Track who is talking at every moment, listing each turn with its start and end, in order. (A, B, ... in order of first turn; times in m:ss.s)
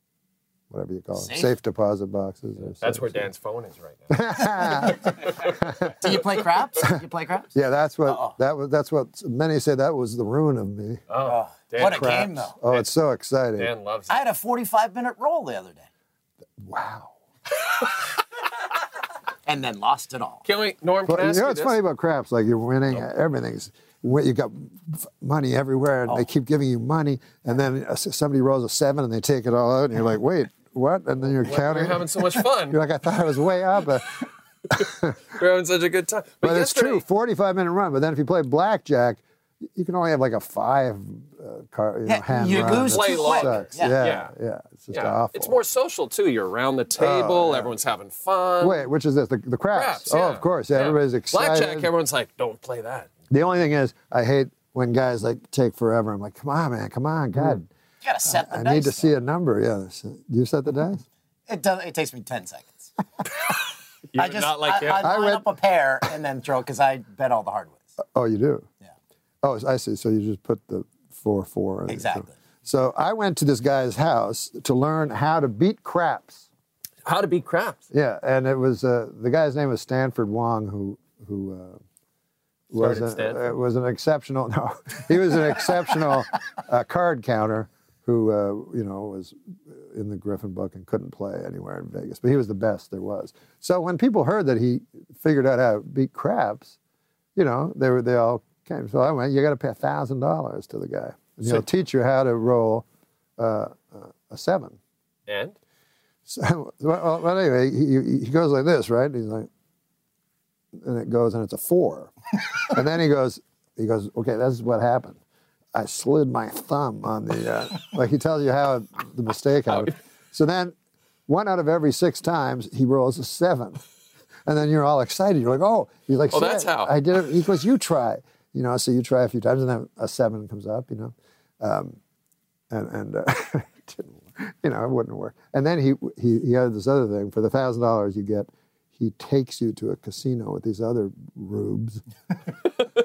0:00.7-0:03.3 A
0:01.1-0:01.5 B
0:02.8-0:04.3 C
0:04.1-0:05.9 A
0:04.8-0:05.1 B
0:05.2-0:05.6 C
0:06.0-0:07.5 B
0:07.5-0:11.0 A
0:08.1-0:08.4 B
0:11.1-0:12.9 C
0:11.2-0:12.6 B
0:11.8-0:13.7 A
0:13.6-0:14.2 C
0:14.1-0:15.9 B
0:16.6-0:17.2 A
0:19.5-0:20.4 B
0:20.4-0:21.8 C
0:21.1-0:35.2 A
0:31.3-0:32.8 C
0:35.2-0:37.0 C
0:36.4-0:39.2 A
0:39.7-0:45.6 A
0:42.0-0:44.0 B
0:42.5-0:44.3 C
0:44.9-0:48.8 C
0:47.0-0:47.7 A
0:48.6-0:51.9 A
0:49.7-0:53.1 C
0:53.3-0:57.7 A
0:58.0-0:59.1 B
0:58.2-1:01.0 A
1:01.5-1:02.9 B
1:04.1-1:05.1 C
1:04.2-1:07.8 B
1:04.9-1:05.5 A
1:08.0-1:08.7 A
1:09.4-1:16.4 A
1:11.9-1:12.3 B
1:17.0-1:17.8 C
1:17.9-1:21.8 A
1:22.7-1:36.8 A
1:22.8-1:23.5 C
1:37.4-1:42.9 A
1:43.4-1:44.8 A
1:45.3-1:45.6 C
1:46.3-1:49.5 A
1:50.8-1:55.2 A
1:55.7-2:00.8 A
1:59.7-1:59.9 C
2:01.3-2:03.8 A
2:04.5-2:12.0 A
2:06.3-2:07.0 C
2:12.7-2:22.0 A